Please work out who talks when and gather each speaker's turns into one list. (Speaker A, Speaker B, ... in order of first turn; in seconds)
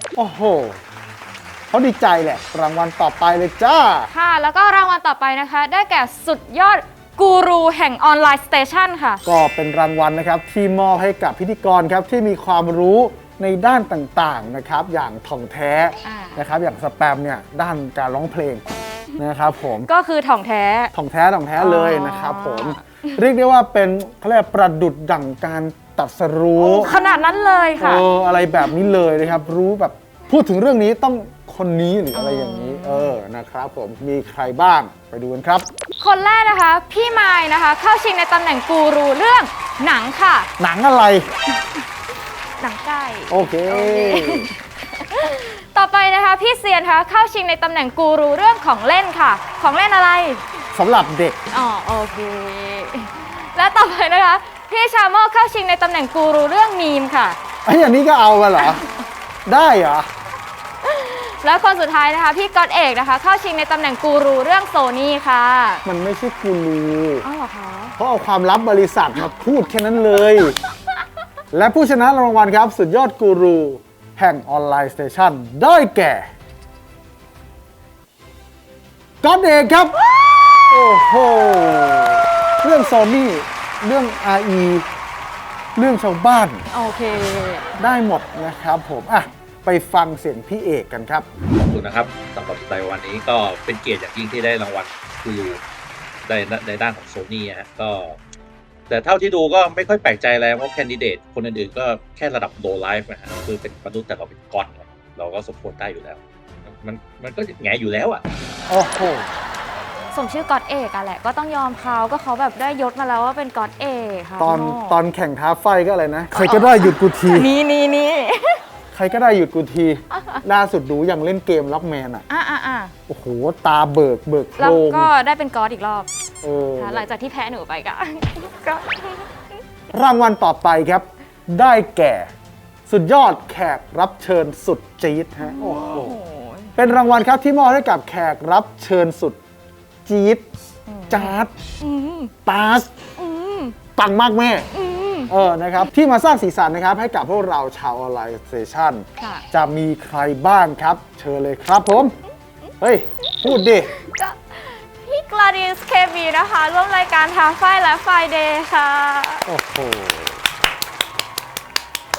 Speaker A: 0.1-0.8, 1.7-4.1, 9.2-18.6, 19.2-19.9, 20.9-26.9, 27.8-35.7, 40.6-41.3, 43.3-44.5, 50.7-51.4, 57.6-58.8, 59.5-60.1, 65.8-67.2, 68.0-70.6, 71.5-76.3, 79.2-80.0, 80.6-84.9, 85.8-86.6, 87.8-91.3, 108.7-109.3, 114.4-117.5, 118.9-122.2, 123.1-125.1, 126.4-127.0, 129.9-132.3, 132.9-136.2, 136.7-139.4, 140.1-140.5, 141.1-141.5, 142.4-142.9, 143.9-144.7, 145.3-152.1, 152.8-153.9, 159.4-160.4
Speaker B: 4.1-9.2, 16.0-16.4, 19.9-20.9, 21.6-22.8, 26.6-28.1, 32.1-33.1, 36.0-40.5, 42.6-50.4, 51.5-57.4, 60.8-65.8, 67.2-67.9, 86.7-87.7, 110.1-115.0, 116.3-118.6, 120.1-120.4, 122.3-122.9, 124.6-126.1, 126.8-129.3, 135.4-136.7, 140.9-142.3, 143.2-143.8, 144.7-145.3, 149.2-149.4, 153.3-159.4
Speaker C: 91.5-95.6, 96.2-98.2, 98.9-108.2